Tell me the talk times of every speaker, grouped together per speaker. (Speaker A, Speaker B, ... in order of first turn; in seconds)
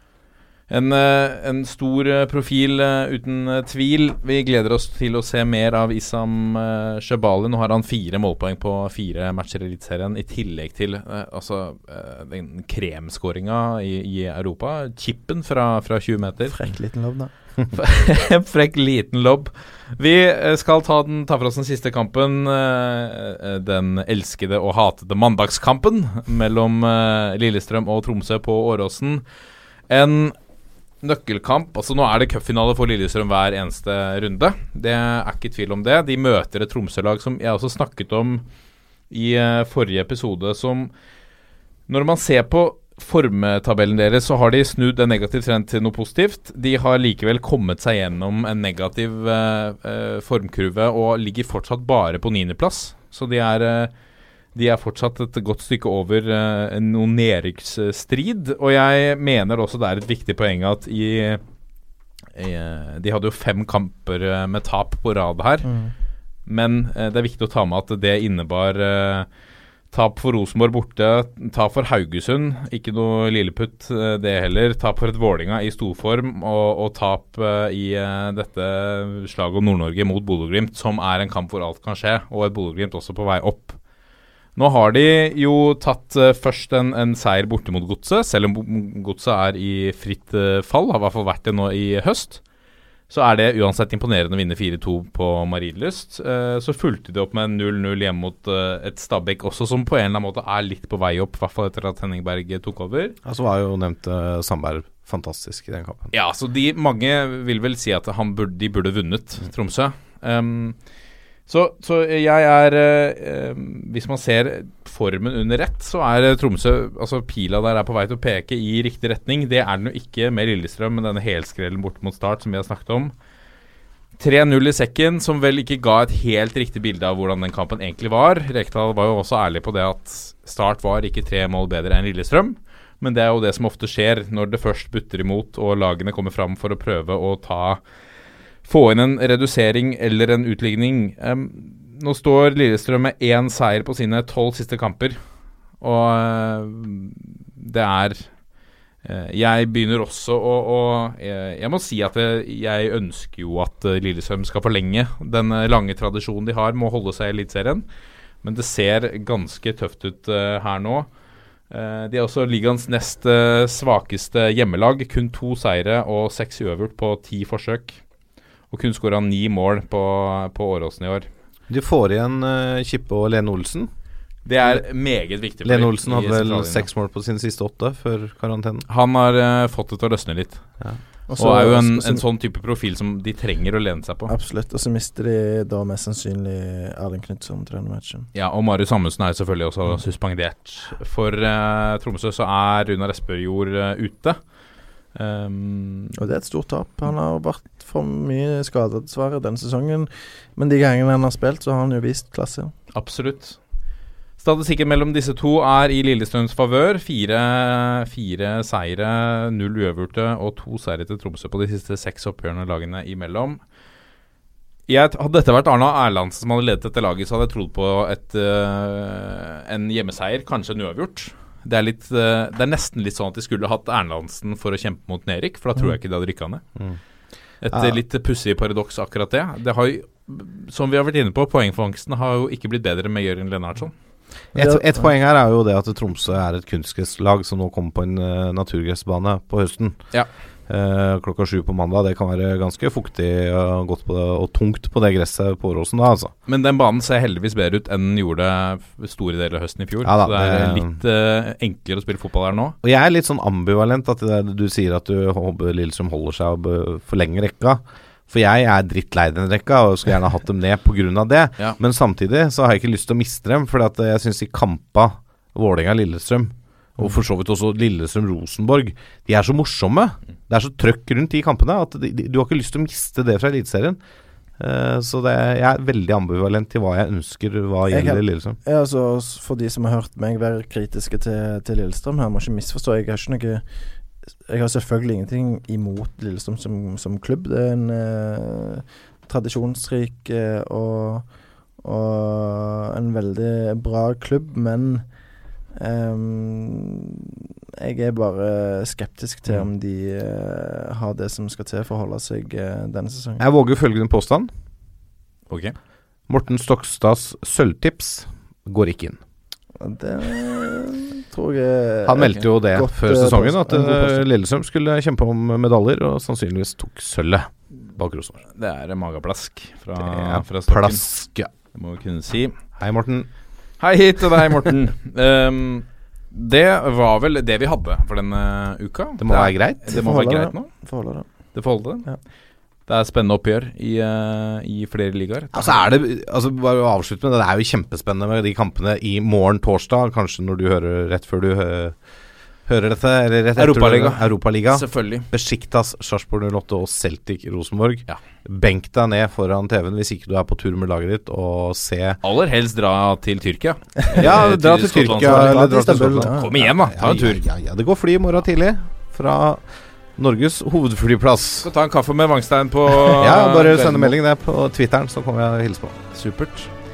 Speaker A: 0.7-16.6, 17.7-29.2, 29.9-30.4, 31.0-38.4, 39.1-40.9, 41.9-53.9, 54.5-61.4, 62.4-65.7, 66.5-69.3, 69.9-83.8, 84.6-92.4, 93.1-103.2, 106.1-110.8, 111.5-123.1, 124.2-137.8, 138.7-145.2, 145.8-148.3, 149.0-157.8, 158.4-161.1, 161.7-168.0, 168.7-171.3, 174.5-176.9, 178.9-180.7, 181.4-184.3, 188.3-194.4, 195.2-196.1, 202.9-203.6, 204.4-213.6, 214.9-226.6, 227.6-233.9, 246.5-252.8, 305.5-305.8, 318.5-321.0, 321.7-322.5, 323.8-330.6, 331.6-332.1, 332.9-335.8, 343.6-345.3, 352.2-357.4, 361.6-364.1, 366.1-366.7
Speaker B: 16.5-17.3, 65.6-65.9, 181.3-182.2, 184.3-188.3, 196.2-202.7, 234.6-235.1, 277.9-283.6, 284.5-291.3, 291.8-295.1, 295.8-303.4, 309.8-314.2, 329.9-331.3, 355.1-356.5
Speaker C: 103.2-106.1, 171.7-173.9, 175.6-178.8, 227.7-228.0, 234.6-240.0, 240.7-246.3, 250.1-251.0, 252.8-274.0, 274.6-278.6, 303.4-304.5, 306.3-309.2, 312.1-318.4, 320.0-321.5, 322.8-323.3, 329.2-329.9, 335.5-342.0, 342.7-352.2, 354.2-359.6, 360.2-361.7, 363.1-366.1